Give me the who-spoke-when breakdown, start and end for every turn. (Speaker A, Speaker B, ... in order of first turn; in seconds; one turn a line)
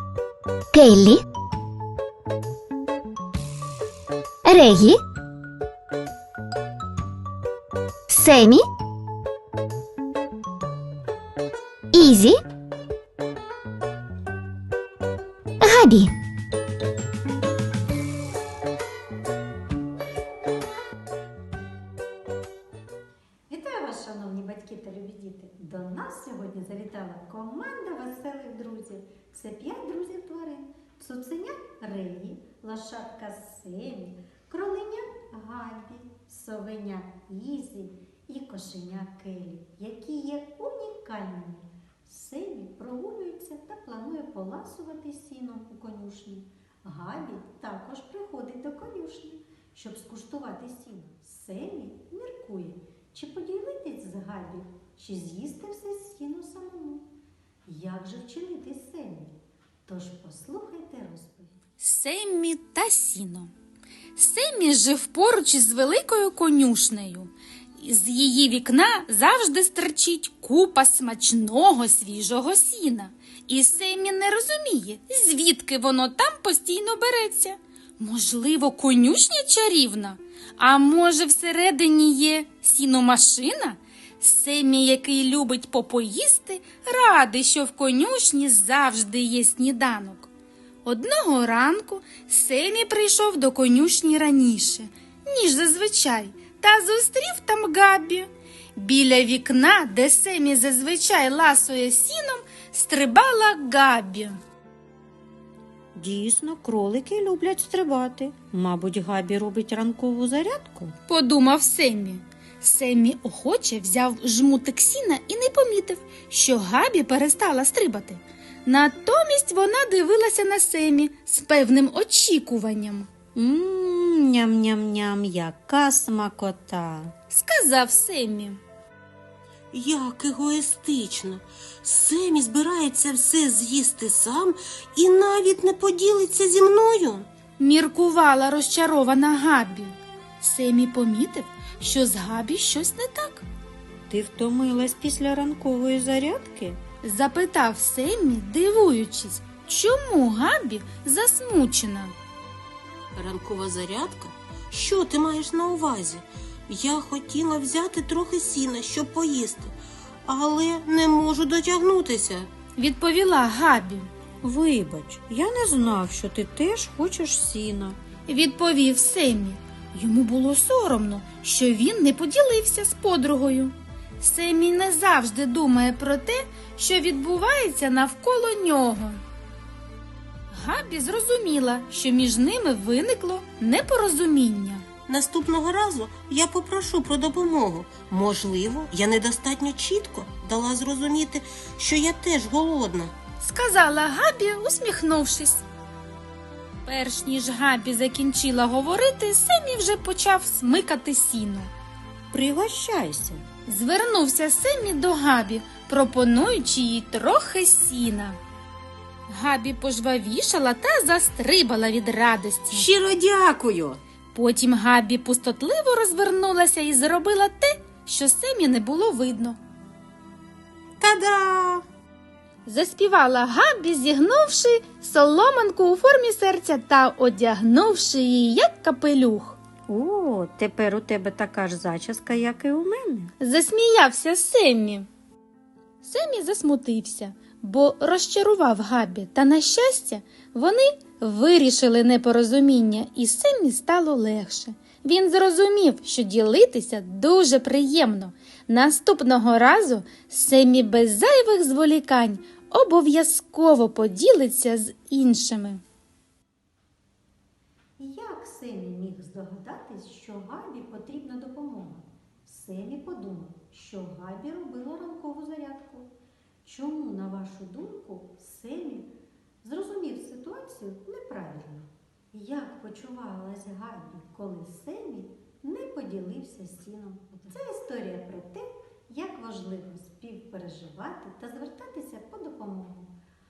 Speaker A: 0.7-1.2
Speaker A: 4.4-5.0
Speaker A: 8.1-8.7
Speaker A: 11.9-12.4
Speaker A: 15.6-16.1
Speaker B: 23.6-41.7
Speaker B: 42.2-57.1
Speaker B: 57.7-61.6
Speaker C: 61.8-63.5
Speaker C: 64.2-90.3
Speaker C: 90.8-104.4
Speaker D: 105.9-110.9
Speaker C: 111.1-123.1
Speaker D: 123.3-127.1
Speaker C: 127.3-128.6
Speaker E: 129.7-137.3
Speaker C: 137.6-143.4
Speaker D: 144.1-146.8
Speaker C: 147.0-152.1
Speaker E: 153.1-159.7
Speaker E: 160.2-162.5
Speaker C: 162.8-164.1
Speaker D: 164.4-168.0
Speaker C: 168.3-179.2
Speaker C: 180.5-184.8
Speaker E: 185.1-193.1
Speaker C: 193.4-195.6
Speaker C: 196.8-201.7
Speaker D: 202.3-203.4
Speaker C: 203.7-208.4
Speaker C: 209.3-212.9
Speaker E: 212.7-214.0
Speaker C: 214.3-219.6
Speaker E: 221.0-221.8
Speaker C: 222.7-229.6
Speaker D: 229.9-233.3
Speaker C: 233.4-235.1
Speaker C: 236.0-255.8
Speaker B: 258.0-266.1
Speaker B: 266.7-269.1
Speaker B: 269.6-283.1